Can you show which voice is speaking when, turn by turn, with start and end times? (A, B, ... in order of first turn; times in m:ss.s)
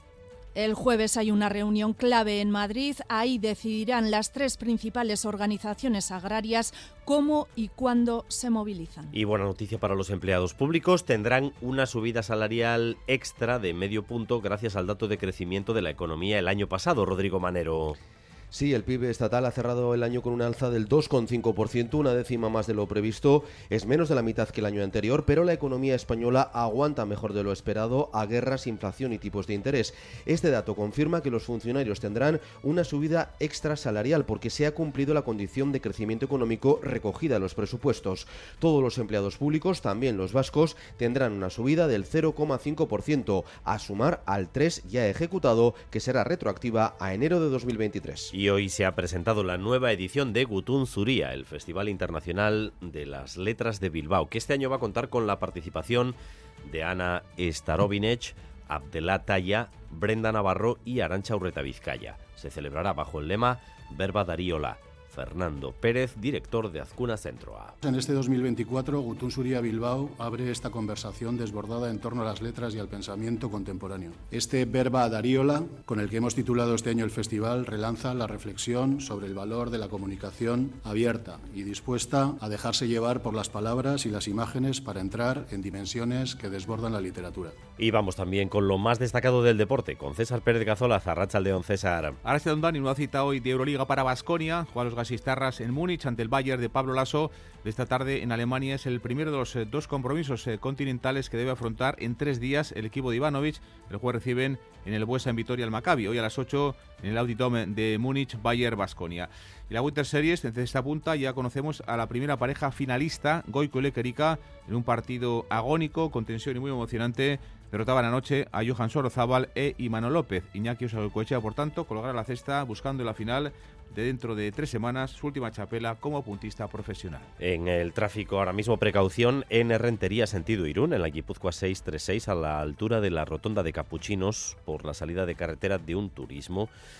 0:00.5-0:09.1 A
0:09.1-0:18.0 B
0:18.5-0:48.3 C
0:48.3-1:07.8 B
1:07.8-1:27.6 D
1:27.8-1:32.2 B
1:32.2-2:07.3 E
2:07.4-2:16.7 B